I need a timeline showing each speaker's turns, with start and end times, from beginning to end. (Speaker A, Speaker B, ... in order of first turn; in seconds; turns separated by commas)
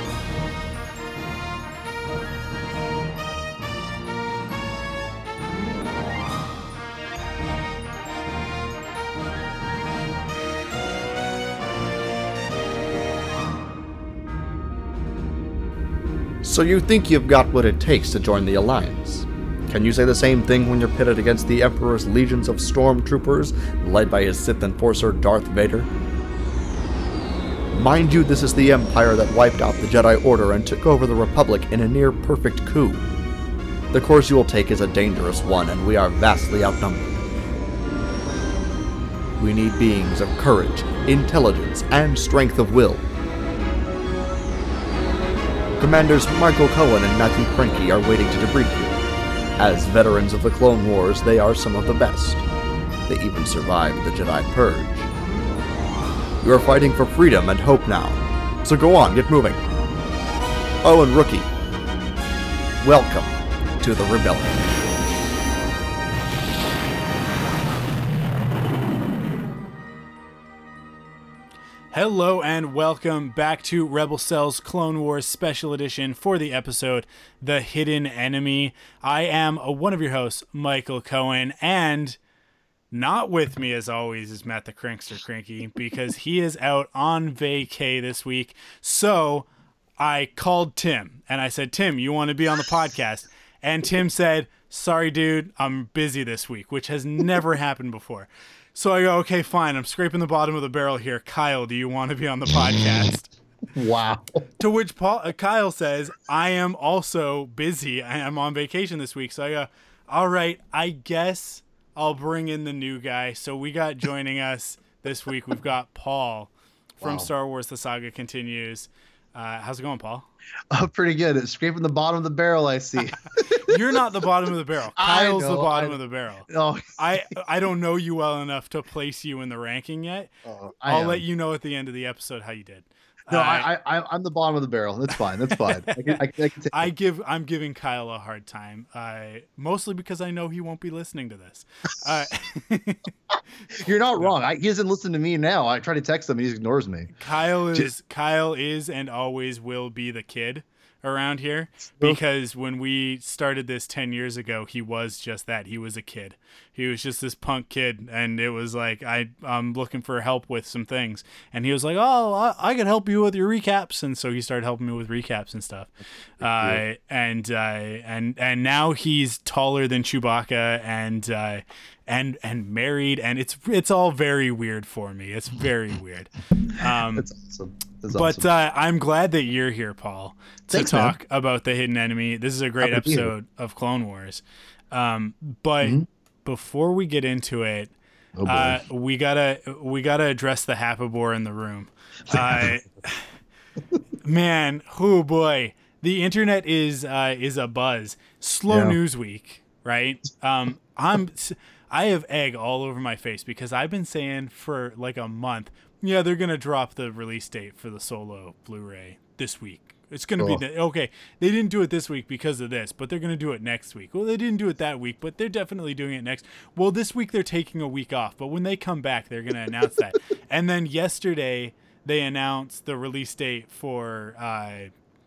Speaker A: 16.4-25.9, Speaker A: 27.7-33.1, Speaker A: 33.9-37.1, Speaker A: 39.4-43.0, Speaker A: 45.8-49.0, Speaker A: 49.6-52.4, Speaker A: 53.1-55.1, Speaker A: 56.4-59.6, Speaker A: 60.8-61.5, Speaker A: 62.8-64.8, Speaker B: 71.9-82.2, Speaker B: 82.9-89.5, Speaker B: 90.0-103.3, Speaker C: 103.7-104.4, Speaker B: 104.6-120.3, Speaker C: 117.0-117.3, Speaker C: 120.7-124.0, Speaker B: 123.4-130.3, Speaker C: 125.0-127.0, Speaker C: 130.4-131.2, Speaker B: 130.8-133.7, Speaker C: 133.3-136.9, Speaker B: 135.5-143.1, Speaker C: 143.7-147.1, Speaker B: 147.2-177.3, Speaker C: 166.4-166.8, Speaker C: 177.1-178.5, Speaker B: 178.1-187.9, Speaker C: 180.7-181.1, Speaker C: 182.8-183.3, Speaker C: 188.3-188.8, Speaker B: 188.4-193.3, Speaker C: 192.3-192.8, Speaker B: 194.2-224.9, Speaker C: 198.7-199.0